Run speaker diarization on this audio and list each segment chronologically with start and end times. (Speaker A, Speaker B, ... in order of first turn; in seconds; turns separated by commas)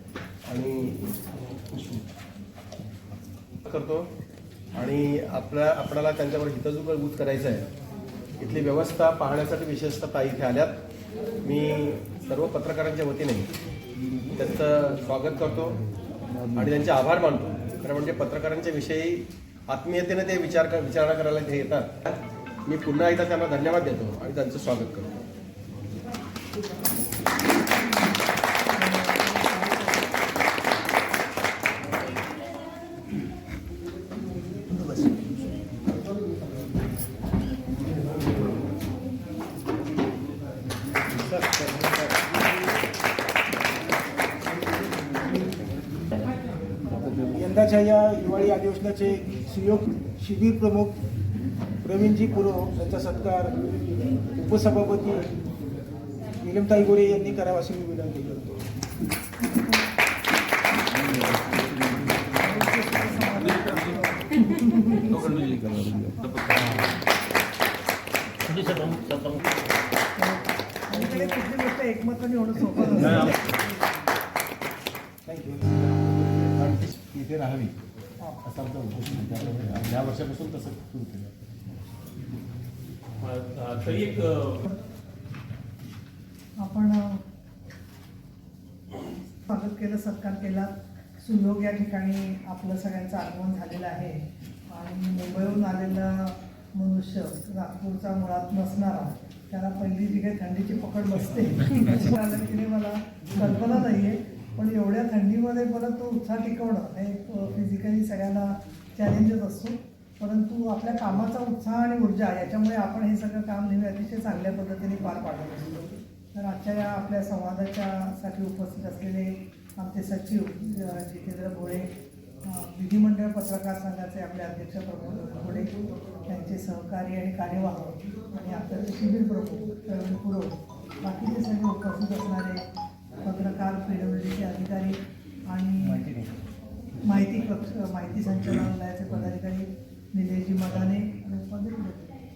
Speaker A: 0.5-1.1, Speaker A: 1.7-2.0, Speaker A: 3.6-4.1, Speaker A: 4.7-7.7, Speaker A: 8.4-10.8, Speaker A: 11.4-13.5, Speaker A: 14.3-15.8, Speaker A: 16.5-25.2, Speaker B: 28.8-29.8, Speaker C: 41.3-41.8, Speaker C: 46.9-51.0, Speaker C: 51.8-53.6, Speaker C: 54.2-55.4, Speaker C: 56.4-58.6, Speaker B: 62.3-64.3, Speaker D: 65.2-66.7, Speaker B: 66.0-66.2, Speaker D: 68.5-69.4, Speaker B: 70.2-73.4, Speaker C: 75.2-75.9, Speaker A: 76.5-77.7, Speaker A: 78.4-81.3, Speaker D: 83.2-84.6, Speaker B: 86.6-87.2, Speaker B: 89.5-121.9, Speaker B: 122.4-132.7, Speaker B: 133.2-136.2, Speaker B: 137.0-142.2